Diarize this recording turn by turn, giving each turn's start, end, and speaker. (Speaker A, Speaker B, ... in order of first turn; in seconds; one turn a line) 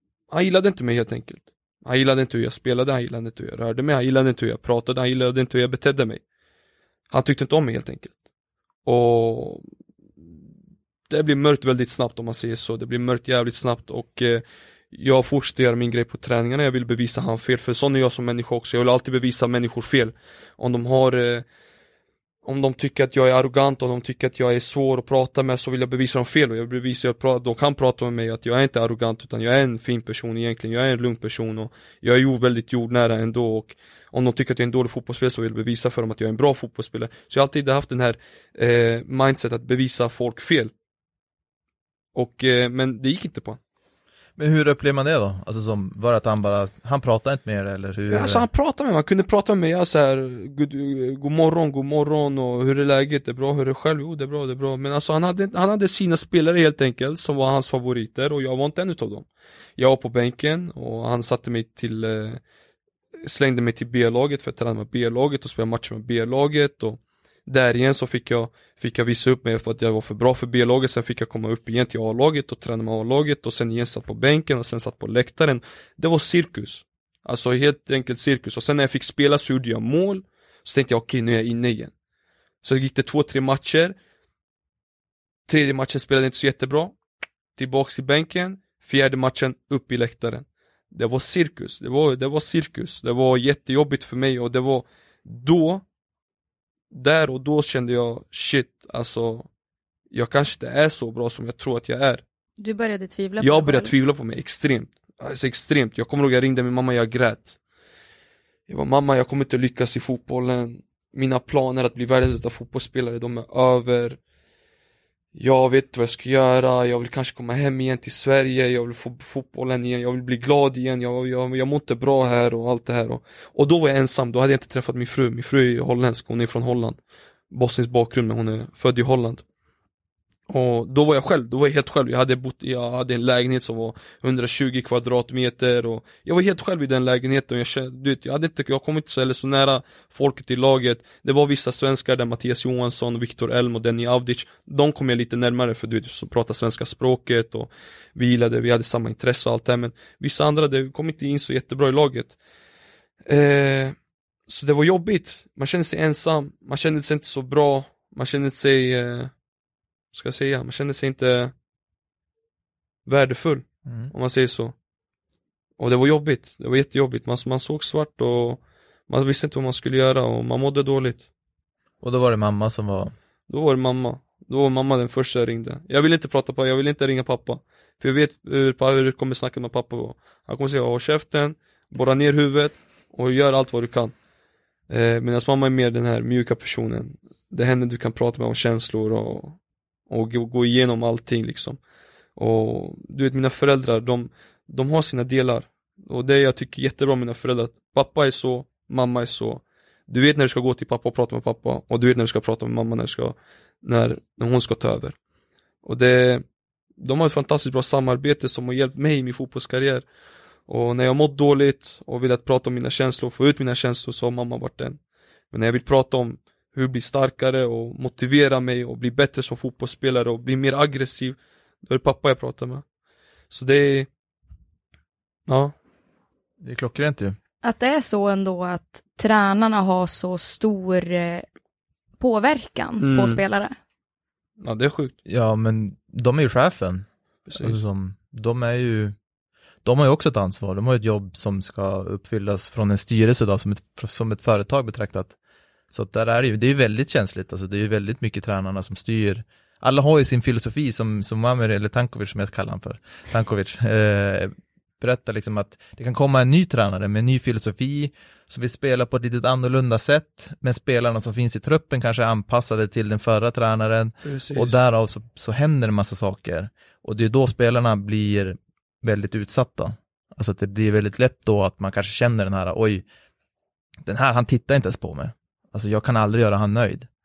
Speaker A: 0.3-6.2
Speaker A: 7.1-8.1
Speaker A: 8.8-9.6
Speaker A: 11.1-21.4
Speaker A: 22.4-40.7
Speaker A: 42.1-43.6
Speaker B: 44.4-48.5
Speaker A: 48.1-62.4
Speaker A: 63.2-81.9
Speaker A: 82.6-84.0
Speaker A: 85.5-87.0
Speaker A: 87.5-95.8
Speaker A: 96.9-99.5
Speaker A: 100.1-102.2
Speaker C: 102.6-103.9
Speaker A: 103.4-107.6
Speaker A: 108.7-114.2
Speaker A: 115.3-127.0
Speaker A: 127.5-129.4
Speaker A: 130.5-152.4
Speaker A: 153.3-154.0
Speaker A: 154.5-159.3
Speaker A: 160.1-161.5
Speaker A: 163.1-164.7
Speaker B: 163.9-164.1
Speaker A: 165.8-171.2
Speaker B: 172.0-173.1
Speaker A: 173.5-184.1
Speaker A: 184.9-189.6
Speaker A: 190.1-191.8
Speaker A: 192.4-205.2
Speaker A: 205.8-206.4
Speaker A: 207.0-210.1
Speaker A: 210.7-215.0
Speaker A: 215.5-222.8
Speaker A: 223.5-224.1
Speaker A: 225.5-225.8
Speaker B: 226.6-227.4
Speaker C: 227.6-231.4
Speaker C: 232.2-233.8
Speaker A: 233.0-233.4
Speaker A: 234.6-235.1
Speaker B: 235.3-239.2
Speaker A: 237.5-237.8
Speaker B: 239.8-245.3
Speaker B: 245.9-273.1
Speaker A: 264.2-264.8
Speaker B: 274.0-277.1